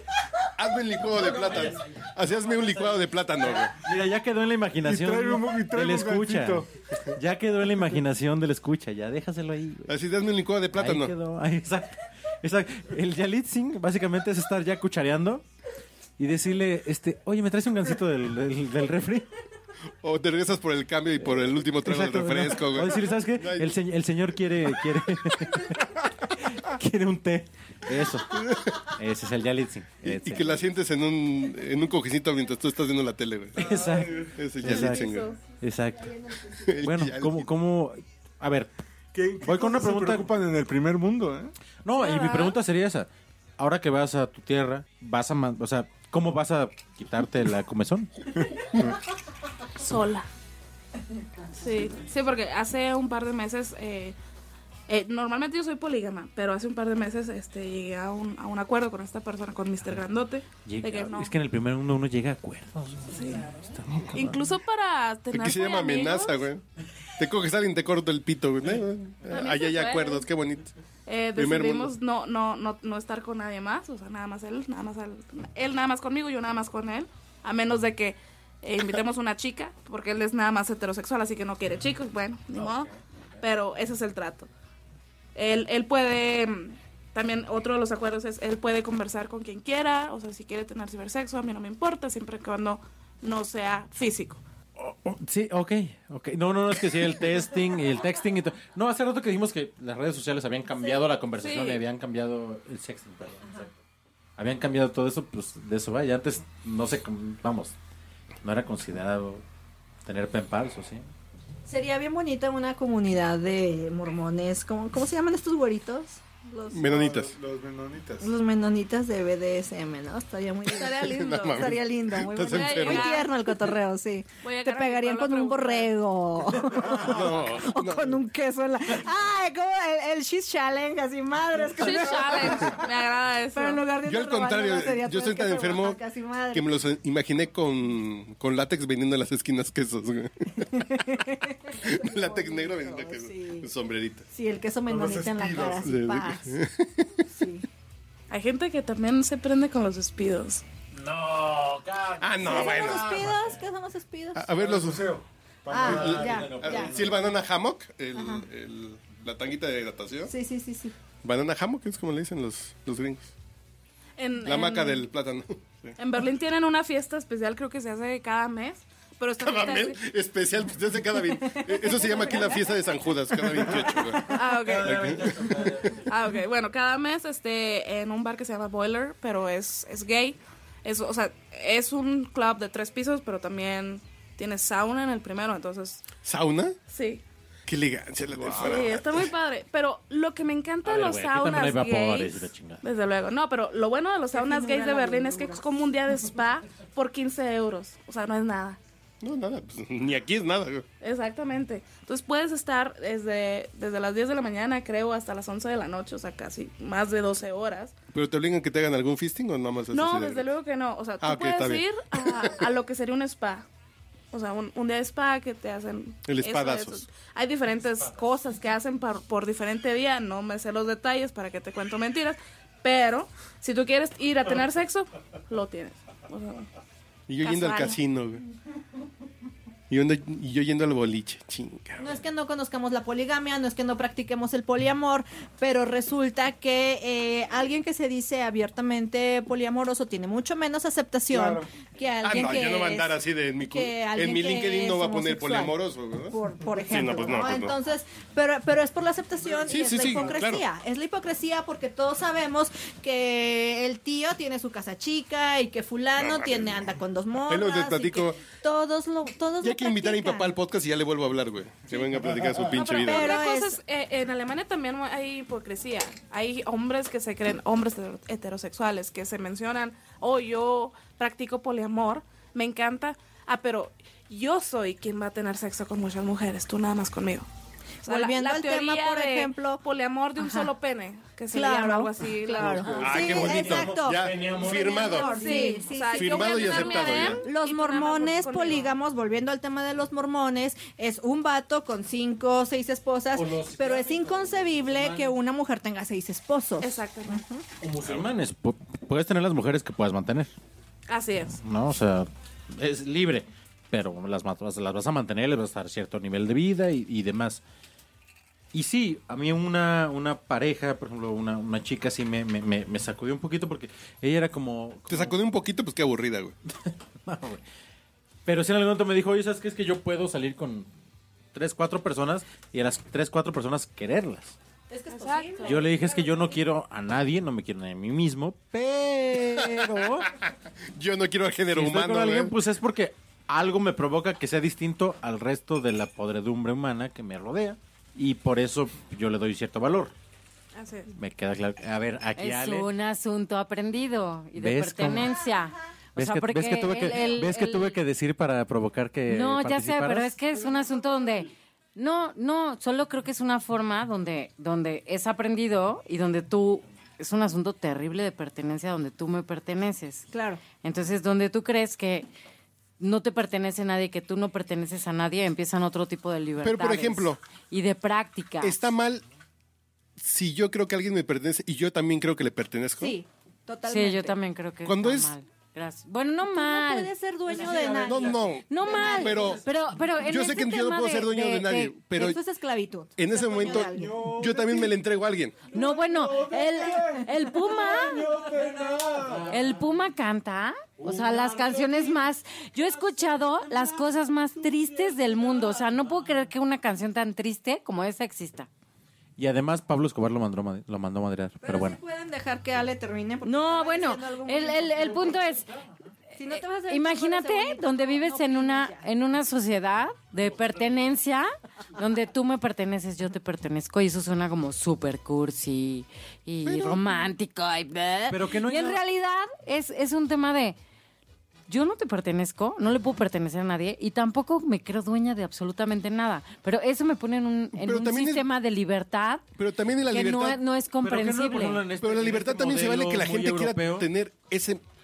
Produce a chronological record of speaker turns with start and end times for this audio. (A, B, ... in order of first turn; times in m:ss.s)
0:00.6-0:03.8 A
0:01.1-0:09.9 B
0:04.8-0:07.1 C
0:09.9-0:11.1 A
0:10.7-0:15.4 B
0:16.2-0:19.3 B
0:20.0-0:23.8 A
0:21.2-0:30.6 B
0:28.3-0:28.8 A
0:30.0-0:33.7 A
0:33.6-0:36.2 B
0:33.8-0:34.4 C
0:34.4-0:35.3 A
0:34.6-0:35.4 D
0:36.1-0:36.6 E
0:36.6-0:37.5 A
0:36.8-0:38.7 B
0:39.1-0:41.5 C
0:39.4-0:40.3 B
0:41.8-0:48.1 B
0:42.2-0:42.4 D
0:49.8-0:50.3 D
0:51.6-0:54.2 D
0:54.9-1:01.3 D
1:00.6-1:04.4 B
1:03.1-1:03.5 D
1:04.1-1:06.5 D
1:05.3-1:06.6 A
1:07.2-1:10.7 A
1:09.3-1:10.3 D
1:11.1-1:24.5 D
1:11.4-1:11.9 A
1:25.4-1:34.4 D
1:34.8-1:43.7 B
1:41.4-1:41.8 D
1:44.4-1:47.8 B
1:48.4-1:49.4 B
1:50.0-1:51.1 B
1:51.6-1:56.8 E
1:56.7-1:57.3 A
1:56.8-1:58.3 C
1:58.2-2:12.8 E
2:00.7-2:01.7 D
2:01.0-2:03.3 A
2:02.5-2:03.3 D
2:04.4-2:05.9 D
2:06.9-2:08.2 A
2:11.8-2:13.8 D
2:13.5-2:16.7 E
2:14.0-2:16.0 A
2:16.5-2:20.7 A
2:20.6-2:23.7 E
2:21.7-2:24.3 A
2:24.3-2:26.6 E
2:24.9-2:25.9 C
2:25.8-2:27.2 A
2:27.3-2:27.7 E
2:28.3-2:30.6 D
2:31.0-2:33.3 B
2:32.2-2:33.3 A
2:32.4-2:34.4 E
2:34.4-2:35.2 A
2:34.5-2:36.6 C
2:35.7-2:37.0 E
2:35.8-2:40.3 A
2:35.9-2:37.2 B
2:38.1-2:38.5 E
2:40.3-2:41.0 E
2:41.2-2:43.3 A
2:44.2-2:45.1 D
2:44.4-2:46.0 A
2:46.0-2:50.0 D
2:49.4-2:56.0 A
2:51.4-2:52.7 E
2:53.7-2:54.2 E
2:54.3-2:55.1 D
2:54.5-2:56.0 B
2:56.1-3:06.0 D
3:06.2-3:06.8 A
3:06.9-3:07.2 D
3:07.7-3:09.2 A
3:08.5-3:18.8 D
3:10.8-3:12.8 B
3:14.3-3:15.6 E
3:19.2-3:20.9 A
3:21.0-3:28.0 D
3:28.1-3:30.5 A
3:29.9-3:33.7 D
3:31.2-3:32.6 A
3:34.3-3:46.7 D
3:36.3-3:37.1 A
3:47.3-3:48.4 A
3:47.4-3:48.0 D
3:49.9-3:52.1 A
3:52.0-4:05.8 E
4:01.3-4:01.6 C
4:02.2-4:07.8 A
4:06.3-4:20.6 E
4:09.7-4:10.6 A
4:16.2-4:16.8 A
4:17.5-4:18.4 A
4:19.6-4:23.4 A
4:22.2-4:22.7 C
4:22.8-4:37.5 D
4:23.0-4:23.8 E
4:38.0-4:39.8 E
4:38.0-4:43.1 D
4:40.4-4:40.7 E
4:41.5-4:57.6 E
4:42.9-4:45.4 A
4:43.0-4:45.0 B
4:45.0-4:48.9 D
4:46.1-4:47.4 A
4:53.3-4:55.3 B
4:56.8-4:57.4 D
4:57.8-5:00.5 B
5:01.1-5:01.6 D
5:01.6-5:07.6 B
5:08.7-5:15.4 B
5:15.1-5:16.5 A
5:16.8-5:17.6 B
5:18.5-5:20.9 B
5:21.5-5:24.6 B
5:24.9-5:26.5 E
5:25.1-5:25.8 D
5:25.6-5:30.3 B
5:31.0-5:32.6 A
5:31.7-5:40.1 B
5:40.7-5:41.1 D
5:41.1-5:42.9 B
5:42.4-5:48.0 F
5:44.6-5:45.4 B
5:46.2-5:50.4 B
5:49.3-6:00.3 F
6:00.3-6:00.6 E
6:00.8-6:02.3 F
6:03.0-6:08.8 F
6:06.6-6:07.4 A
6:08.6-6:09.2 A
6:10.2-6:13.2 A
6:13.0-6:14.4 E
6:13.9-6:17.1 F
6:14.8-6:15.3 A
6:16.5-6:19.4 E
6:17.5-6:18.2 B
6:18.0-6:19.6 A
6:18.7-6:22.0 F
6:19.0-6:19.6 B
6:20.2-6:22.4 A
6:22.2-6:24.3 E
6:23.2-6:25.6 A
6:23.6-6:24.9 C
6:25.7-6:28.3 F
6:25.7-6:29.5 C
6:29.3-6:29.6 B
6:29.5-6:38.7 F
6:31.0-6:32.2 C
6:39.4-6:42.0 B
6:41.6-6:45.5 E
6:43.4-6:45.7 F
6:46.4-6:49.1 E
6:46.5-7:00.8 F
6:56.6-6:57.2 A
6:58.3-6:59.0 B
7:01.7-7:09.4 F
7:07.8-7:08.4 A
7:09.6-7:10.6 A
7:10.1-7:11.8 F
7:11.0-7:14.1 B
7:12.0-7:14.8 A